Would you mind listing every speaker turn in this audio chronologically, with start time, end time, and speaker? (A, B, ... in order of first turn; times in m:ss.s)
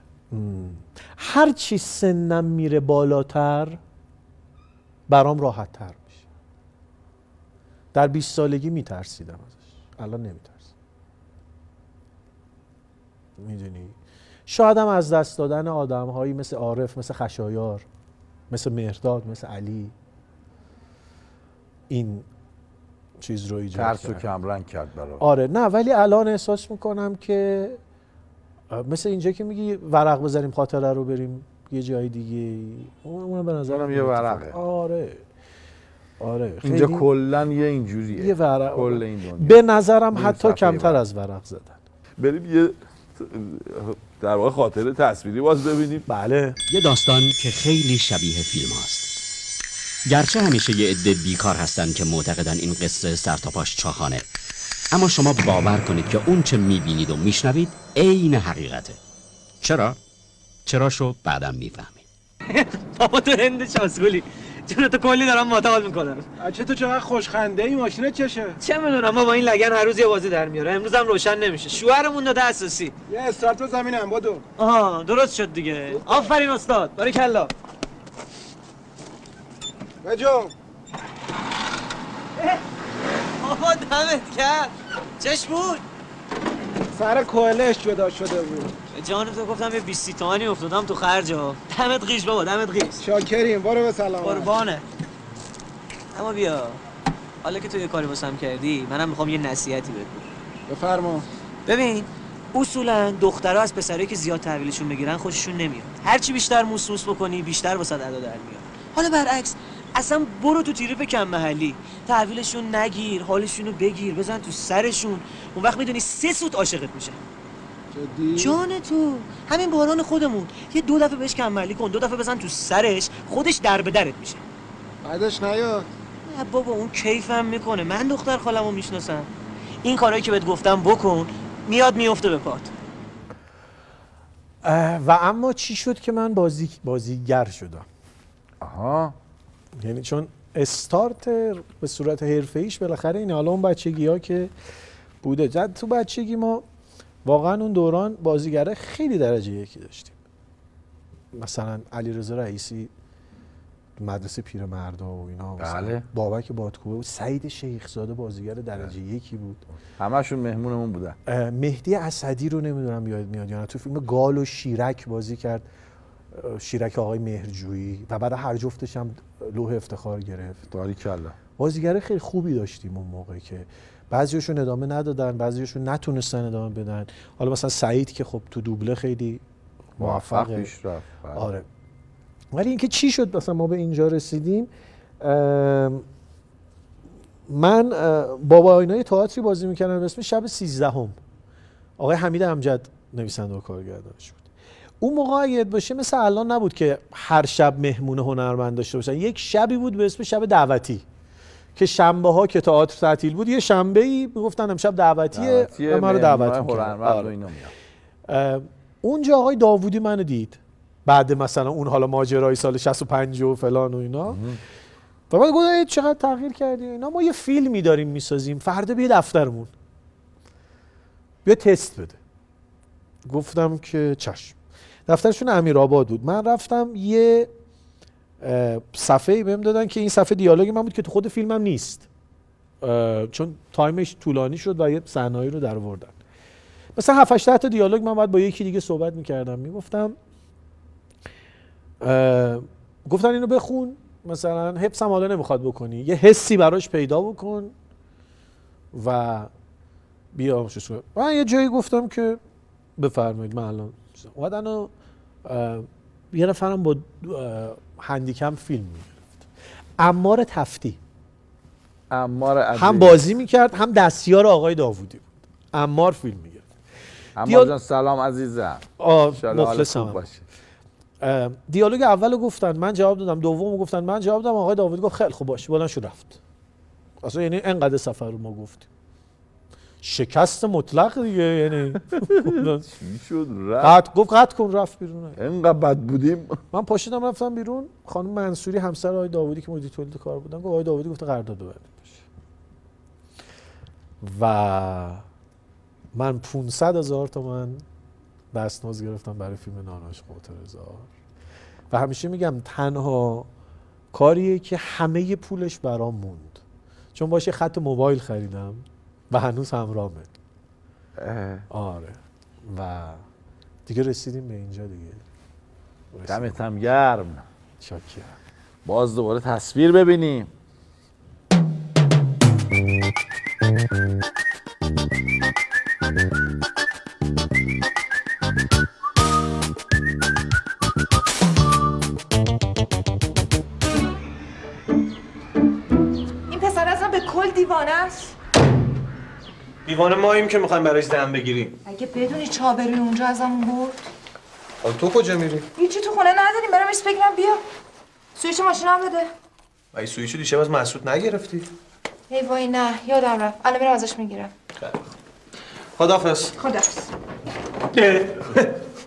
0:00.3-0:03.8 A
0:05.1-0:06.2 A
0:07.9-0:10.7 A
0:13.4-0:14.0 A
0:14.5-0:17.8 A
0:18.5-0:19.9 A
0:21.9-0:22.3 A
0:23.2-0:24.2 A
0:23.7-0:25.2 B
0:25.2-0:27.8 A
0:28.7-0:35.2 A
0:33.7-0:34.6 B
0:36.2-0:37.1 A
0:36.6-0:41.0 B
0:38.1-0:41.8 A
0:42.2-0:46.1 B
0:46.1-0:46.6 A
0:46.7-0:49.2 C
0:50.1-0:54.2 C
0:54.9-0:59.0 C
0:59.6-1:00.0 C
1:00.7-1:02.0 C
1:02.5-1:06.3 D
1:06.4-1:08.6 E
1:08.6-1:12.9 D
1:13.1-1:14.4 E
1:14.6-1:17.5 D
1:16.0-1:16.3 E
1:20.0-1:20.5 E
1:23.4-1:25.8 D
1:27.0-1:28.7 E
1:28.9-1:33.0 D
1:33.0-1:34.6 E
1:34.2-1:34.8 D
1:36.2-1:36.8 D
1:37.4-1:40.2 D
1:40.7-1:41.3 E
1:41.7-1:57.2 D
1:57.9-1:58.6 E
1:58.4-2:04.4 D
2:05.0-2:05.9 E
2:06.3-2:09.3 D
2:09.8-2:12.7 D
2:14.6-2:17.9 A
2:18.6-2:19.2 B
2:19.8-2:24.5 A
2:25.2-2:26.6 A
2:27.2-2:30.2 A
2:31.3-2:32.9 A
2:34.0-2:39.6 A
2:35.6-2:36.0 B
2:40.0-2:41.2 B
2:41.3-2:45.7 A
2:46.3-2:50.6 A
2:50.7-2:51.4 B
2:51.6-2:59.4 A
3:00.0-3:00.7 A
3:00.0-3:01.5 B
3:01.4-3:01.7 A
3:02.5-3:04.7 A
3:05.2-3:06.0 A
3:07.5-3:11.2 A
3:12.0-3:14.5 A
3:15.0-3:21.0 A
3:21.8-3:27.4 A
3:25.3-3:27.7 B
3:28.3-3:34.4 A
3:34.3-3:34.6 B
3:35.3-3:39.7 A
3:41.4-3:42.2 A
3:43.3-3:44.6 A
3:45.1-3:47.5 A
3:48.4-3:52.1 A
3:52.8-3:56.2 A
3:57.0-4:00.2 A
4:02.0-4:07.7 A
4:08.9-4:09.5 A
4:10.3-4:12.4 A
4:13.0-4:14.9 A
4:15.4-4:19.4 A
4:20.0-4:21.0 A
4:22.1-4:23.2 B
4:22.8-4:26.7 A
4:27.4-4:30.4 B
4:27.5-4:27.7 A
4:29.0-4:30.2 A
4:31.2-4:36.4 A
4:37.2-4:38.9 A
4:40.0-4:42.9 A
4:42.2-4:44.0 B
4:43.8-4:45.4 A
4:45.4-4:46.6 B
4:46.7-4:52.2 A
4:54.2-4:55.2 A
4:56.1-4:57.8 A
4:58.5-5:01.1 A
5:01.9-5:03.5 A
5:04.1-5:06.6 A
5:07.2-5:10.3 A
5:11.2-5:11.7 B
5:11.7-5:13.2 A
5:13.9-5:15.2 A
5:16.1-5:16.6 A
5:16.3-5:17.5 B
5:17.8-5:18.4 A
5:18.8-5:20.5 B
5:36.5-5:38.4 F
5:39.9-5:41.8 G
5:41.8-5:44.0 F
5:44.8-5:45.7 G
5:45.8-5:47.6 F
5:48.4-5:49.3 F
5:49.9-5:51.7 G
5:52.3-5:54.5 F
5:56.0-5:56.5 G
5:56.6-5:57.1 F
5:58.0-5:58.6 G